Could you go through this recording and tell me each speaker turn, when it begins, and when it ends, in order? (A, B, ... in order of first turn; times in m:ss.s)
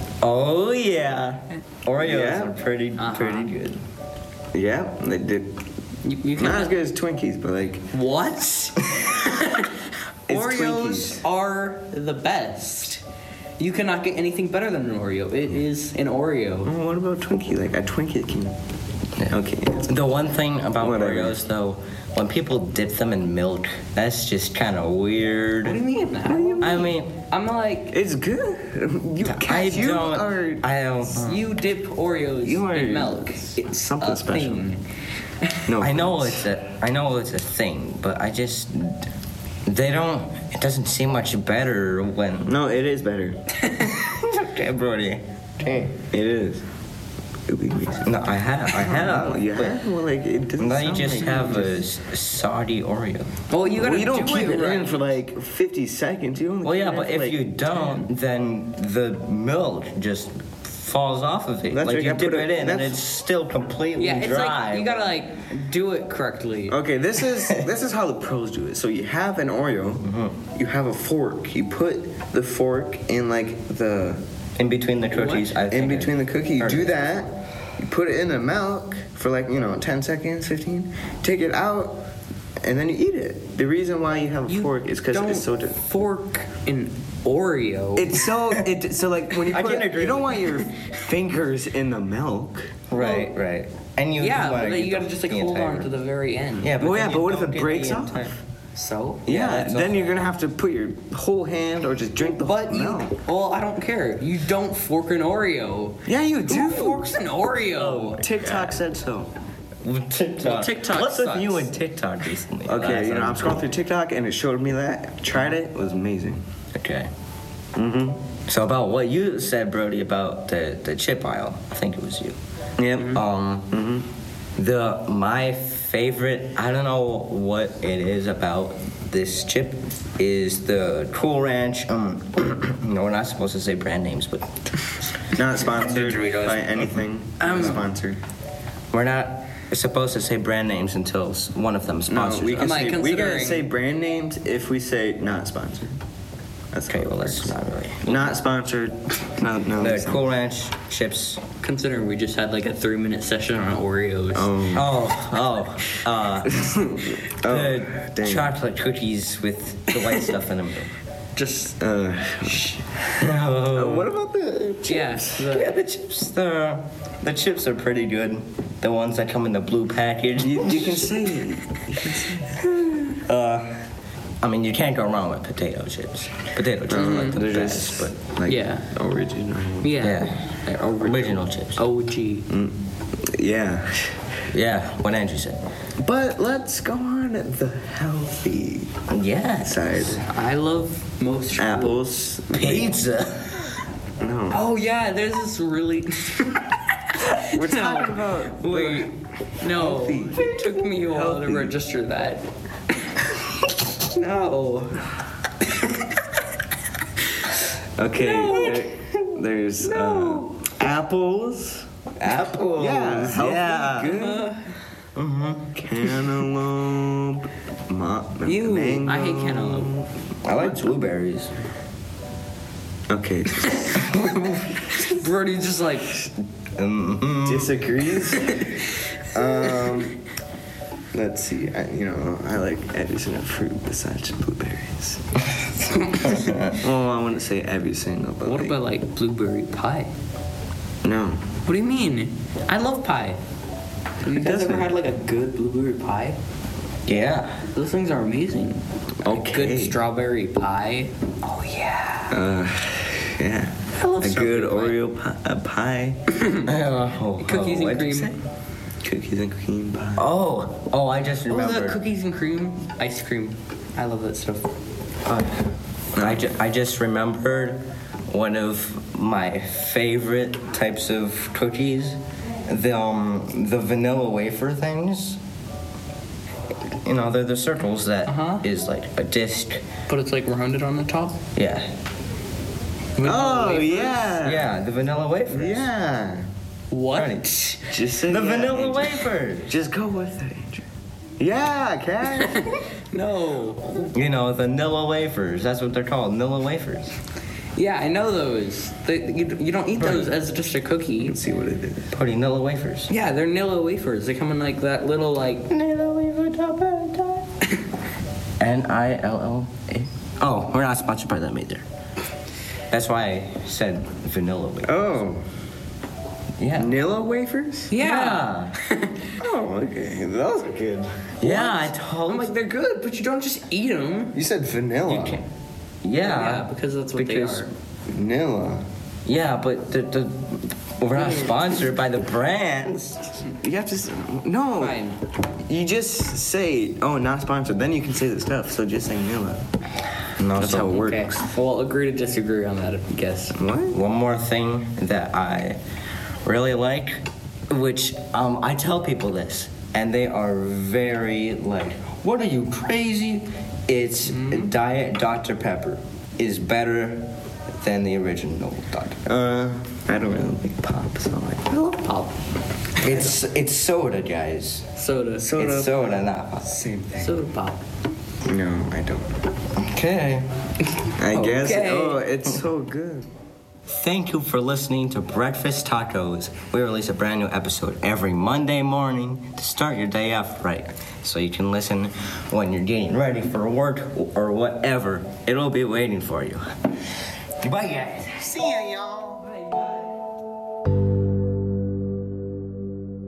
0:00.2-0:03.8 A
0:02.0-0:02.6 B
0:03.0-0:03.5 C
0:04.5-0:05.5 B
0:06.0-0:06.8 C
0:06.4-0:07.8 B
0:07.9-0:13.0 C
0:10.3-0:11.2 B
0:13.6-0:16.7 C
0:16.6-0:18.6 B
0:19.3-0:19.9 B
0:19.9-0:25.8 A
0:20.8-0:21.4 B
0:25.6-0:27.9 C
0:26.2-0:26.9 B
0:26.6-0:27.1 A
0:27.9-0:31.4 B
0:29.2-0:31.4 A
0:31.2-0:34.8 C
0:32.4-0:34.7 B
0:35.7-0:36.4 B
0:35.8-0:39.0 A
0:39.7-0:42.6 A
0:42.5-0:43.4 B
0:43.6-0:43.9 C
0:43.8-0:45.9 A
0:46.1-0:46.6 B
0:47.5-0:48.2 B
0:48.0-0:49.8 A
0:48.7-0:51.8 B
0:50.6-0:53.3 A
0:53.5-0:55.2 C
0:53.6-0:57.6 B
0:56.6-1:05.1 A
1:01.7-1:03.0 B
1:04.0-1:06.8 C
1:06.7-1:14.2 B
1:10.0-1:10.4 A
1:14.6-1:17.0 A
1:15.1-1:15.5 C
1:15.7-1:22.0 B
1:22.6-1:25.8 B
1:24.5-1:28.3 C
1:28.0-1:32.8 B
1:29.5-1:30.6 A
1:32.9-1:35.9 A
1:32.9-1:33.3 C
1:34.2-1:36.8 C
1:36.6-1:38.3 A
1:36.8-1:38.4 B
1:38.7-1:39.2 C
1:39.2-1:43.2 B
1:39.3-1:40.1 A
1:42.2-1:48.2 C
1:46.1-1:47.1 B
1:47.7-1:48.8 A
1:47.9-1:49.3 B
1:49.8-1:53.6 A
1:50.4-1:51.7 C
1:52.7-1:56.4 B
1:56.7-1:57.1 A
1:57.8-1:58.2 B
1:58.5-2:02.4 A
2:02.8-2:04.1 B
2:03.0-2:03.7 A
2:04.6-2:14.6 A
2:15.3-2:18.2 B
2:15.5-2:17.8 A
2:17.4-2:17.8 C
2:18.9-2:22.8 A
2:22.1-2:26.0 B
2:22.6-2:23.7 C
2:26.7-2:30.2 B
2:26.9-2:28.4 A
2:29.8-2:31.4 A
2:31.6-2:34.6 C
2:34.3-2:34.9 B
2:34.7-2:36.6 A
2:36.5-2:38.5 B
2:37.4-2:40.9 A
2:41.4-2:41.8 C
2:41.8-2:42.8 B
2:42.4-2:42.8 C
2:43.1-2:44.1 A
2:43.7-2:45.5 B
2:44.9-2:45.7 C
2:45.4-2:51.1 A
2:50.4-2:52.7 B
2:53.2-2:53.8 A
2:54.4-2:58.1 A
2:56.9-3:00.0 B
2:56.9-2:57.4 C
2:58.5-2:58.9 C
2:59.8-3:02.5 C
3:00.0-3:00.4 A
3:01.0-3:01.8 A
3:02.5-3:04.2 B
3:04.5-3:05.6 A
3:06.0-3:08.9 B
3:09.1-3:09.9 A
3:09.6-3:10.2 B
3:10.1-3:12.1 C
3:11.6-3:12.9 B
3:12.5-3:13.8 A
3:14.2-3:14.6 B
3:14.5-3:22.4 C
3:17.4-3:19.1 B
3:19.6-3:21.7 B
3:24.0-3:25.1 C
3:25.7-3:26.0 C
3:28.0-3:31.8 B
3:28.2-3:28.9 C
3:28.3-3:28.9 A
3:29.8-3:30.5 C
3:32.2-3:34.2 A
3:32.8-3:34.5 B
3:34.0-3:34.7 C
3:35.1-3:35.8 A
3:35.8-3:40.1 B
3:38.4-3:39.9 C
3:40.4-3:41.5 A
3:43.1-3:44.1 B
3:43.6-3:46.2 C
3:46.8-3:47.8 A
3:47.5-3:50.2 B
3:48.3-3:48.9 C
3:49.6-3:50.0 C
3:51.1-3:55.2 B
3:55.9-3:56.5 C
3:56.2-3:56.7 A
3:56.6-3:58.8 B
3:58.4-4:00.1 C
4:01.0-4:01.4 B
4:01.7-4:03.4 C
4:04.2-4:06.4 C
4:04.2-4:05.0 B
4:07.1-4:07.6 A
4:07.7-4:12.4 C
4:09.2-4:10.0 B
4:12.3-4:16.2 B
4:13.9-4:15.0 C
4:16.4-4:16.7 C
4:16.6-4:18.4 A
4:17.4-4:18.4 C
4:19.0-4:20.3 B
4:20.2-4:22.0 A
4:21.5-4:24.7 C
4:25.2-4:35.4 A
4:26.2-4:26.5 B
4:37.0-4:39.9 A
4:38.3-4:38.6 C
4:40.1-4:41.4 C
4:41.6-4:41.9 A
4:43.2-4:44.3 C
4:43.2-4:44.7 B
4:44.4-4:45.9 A
4:45.5-4:46.4 B
4:46.9-4:47.9 C
4:47.1-4:47.5 A
4:47.9-4:50.9 B
4:48.2-4:49.7 A
4:51.4-4:52.8 B
4:52.3-4:54.1 C
4:54.1-4:57.1 A
4:57.8-5:01.4 C
5:00.0-5:00.4 A
5:01.2-5:02.1 B
5:02.1-5:03.1 A
5:03.1-5:05.7 C
5:05.7-5:07.5 A
5:08.6-5:11.8 A
5:12.9-5:14.9 A
5:14.8-5:15.4 B
5:16.6-5:16.9 A
5:16.8-5:18.0 B
5:17.9-5:19.4 C
5:18.0-5:18.7 A
5:19.4-5:21.3 B
5:21.4-5:22.5 A
5:21.4-5:24.4 C
5:24.3-5:25.4 B
5:25.1-5:25.4 A
5:26.0-5:27.7 A
5:26.2-5:27.7 C
5:28.1-5:28.8 B
5:29.2-5:33.4 A
5:31.2-5:31.6 B
5:33.5-5:35.0 B
5:34.8-5:35.2 C
5:35.7-5:39.6 B
5:40.4-5:41.0 A
5:40.6-5:41.5 B
5:40.9-5:43.6 C
5:43.6-5:44.0 B
5:43.9-5:45.8 A
5:46.4-5:59.2 A
5:54.2-5:54.7 C
5:59.2-6:01.8 B
6:01.7-6:02.4 C
6:03.0-6:03.3 C
6:03.0-6:04.9 A
6:05.0-6:05.5 C
6:05.4-6:06.1 B
6:05.6-6:06.7 A
6:06.6-6:07.4 B
6:07.2-6:07.8 C
6:08.5-6:09.3 B
6:09.8-6:10.5 A
6:11.0-6:12.2 C
6:11.2-6:13.3 B
6:13.9-6:26.6 A
6:27.6-6:28.6 A
6:28.5-6:29.7 B